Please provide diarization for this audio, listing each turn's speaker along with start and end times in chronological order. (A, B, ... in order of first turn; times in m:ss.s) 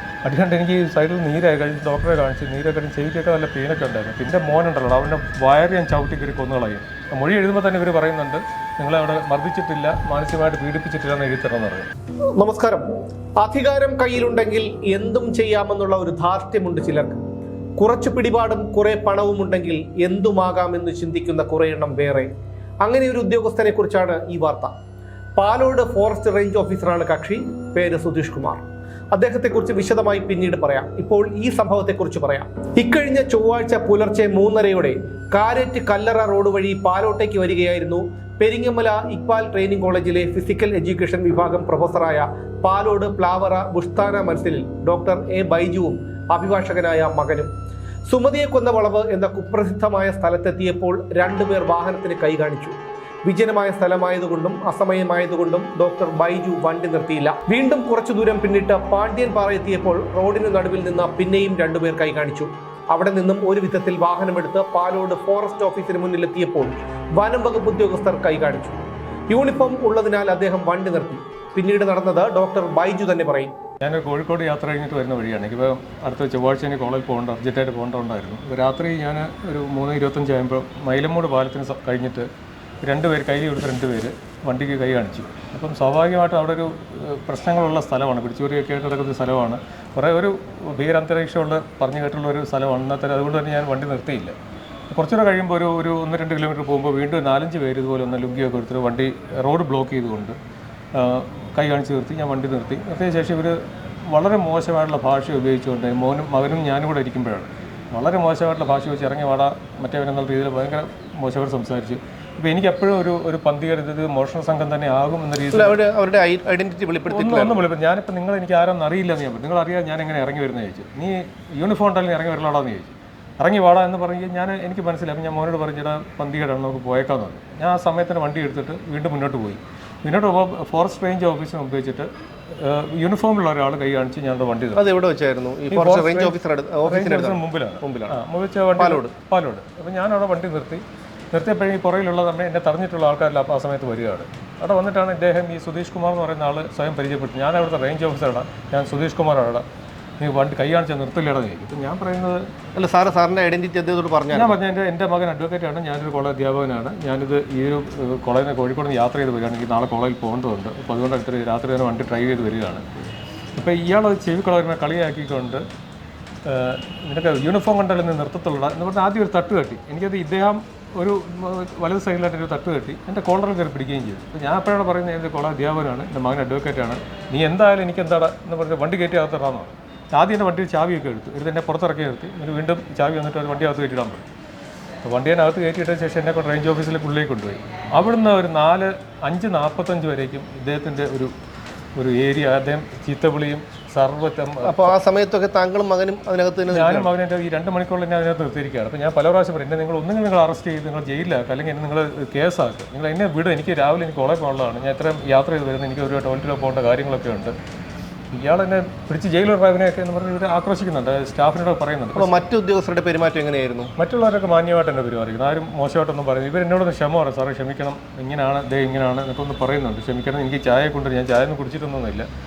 0:00.2-0:11.8 A
0:12.4-0:12.8 B
0:13.4-0:17.2 B
0:17.8-0:22.3 B
0:22.8-0:24.7 B
0:25.4-0:47.5 B
0:48.1-1:08.8 B
1:09.3-1:13.5 B
1:13.8-1:22.3 A
1:22.8-1:34.3 A
1:34.9-1:40.4 A
1:40.9-1:55.8 A
1:55.5-1:57.6 B
1:57.1-2:14.8 A
2:14.8-2:18.2 B
2:15.7-2:29.6 A
2:18.8-2:19.1 B
2:30.2-2:32.5 A
2:32.7-2:34.6 B
2:34.3-2:42.8 A
2:43.6-2:45.6 A
2:46.4-3:04.2 A
3:05.0-3:11.3 A
3:11.9-3:14.9 A
3:14.6-3:17.1 B
3:16.7-3:27.5 A
3:28.3-3:32.4 A
3:32.2-3:33.9 B
3:34.0-3:42.3 A